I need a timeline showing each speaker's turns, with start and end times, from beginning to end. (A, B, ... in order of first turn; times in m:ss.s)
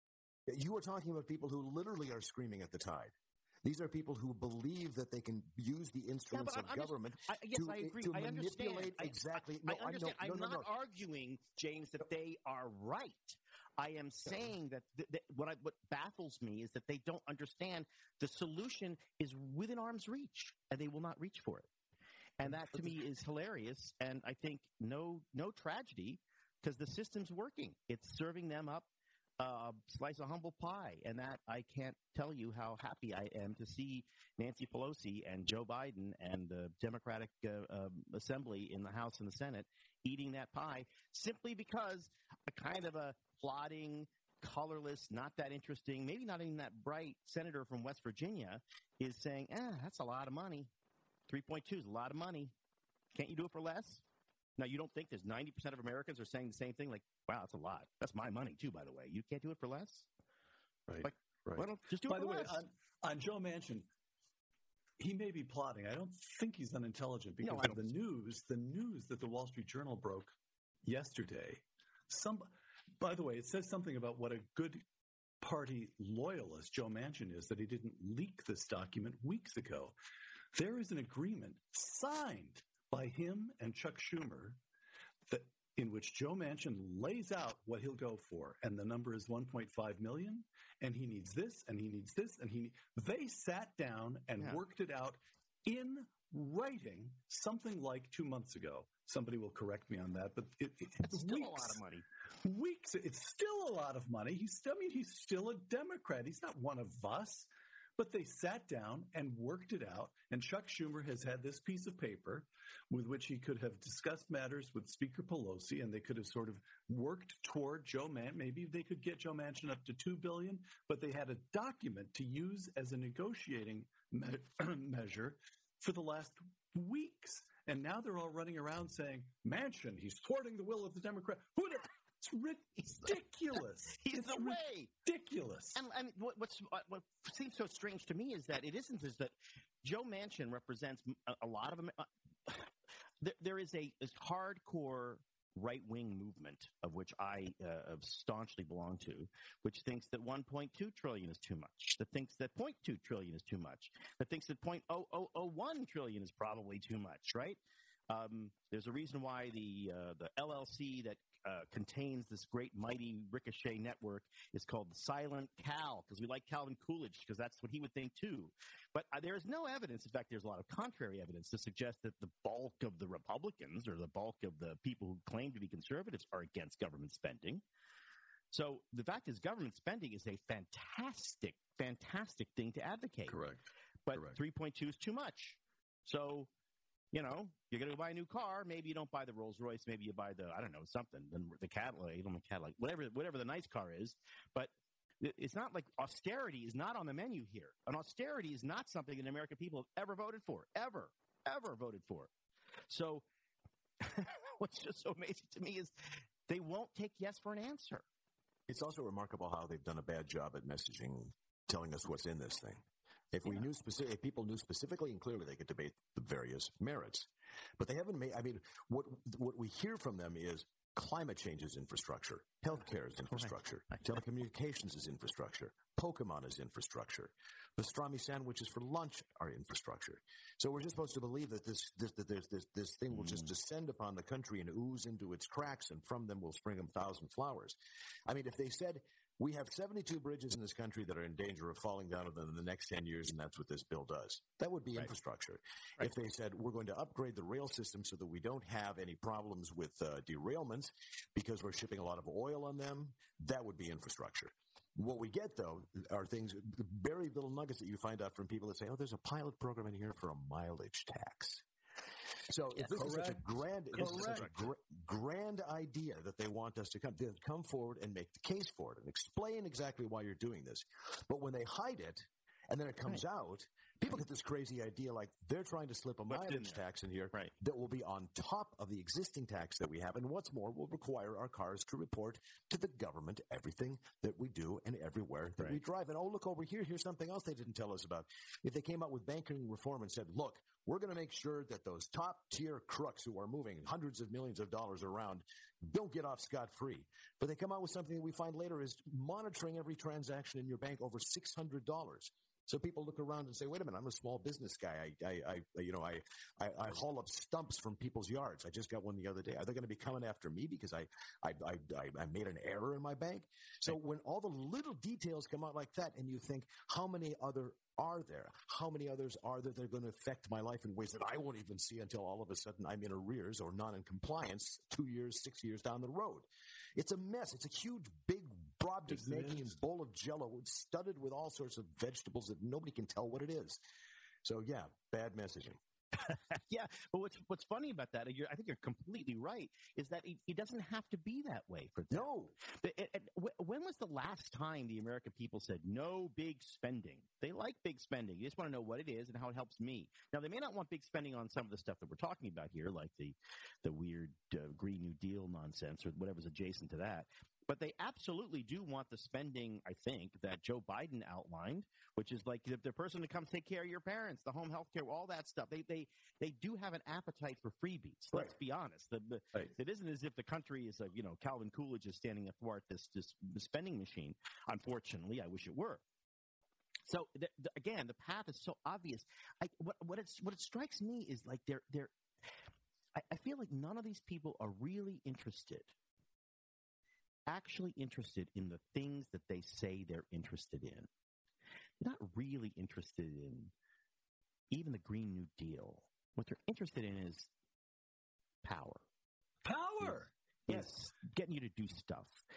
0:00.5-0:10.7 A
0:06.3-0:21.7 B
0:22.4-0:28.9 B
0:29.4-0:50.7 B
0:51.3-0:52.5 B
0:53.1-0:54.0 B
0:54.6-1:00.1 B
1:01.0-1:02.6 B
1:02.0-1:03.9 C
1:05.0-1:14.8 C
1:07.4-1:08.0 B
1:15.4-1:19.9 C
1:20.5-1:24.6 C
1:25.3-1:41.8 C
1:41.0-1:42.0 B
1:42.4-2:15.8 C
2:14.0-2:14.9 B
2:15.7-2:22.7 B
2:23.2-2:57.6 B
2:58.5-3:03.4 B
3:04.0-3:06.5 B
3:07.1-3:22.3 B
3:22.9-3:23.2 B
3:24.0-3:28.0 B
3:28.7-4:21.6 A
3:43.3-3:44.0 B
4:22.4-5:33.8 A
4:22.8-4:24.7 C
4:36.3-4:37.5 B
5:29.1-5:29.8 C
5:34.4-5:35.8 A
5:36.2-6:16.0 B
5:42.1-5:42.5 A
6:17.1-6:22.1 B
6:23.2-6:25.9 B
6:27.5-6:31.1 B
6:32.0-6:33.7 B
6:34.7-6:37.5 B
6:38.6-6:39.0 B
6:39.6-6:40.9 C
6:40.7-6:42.3 B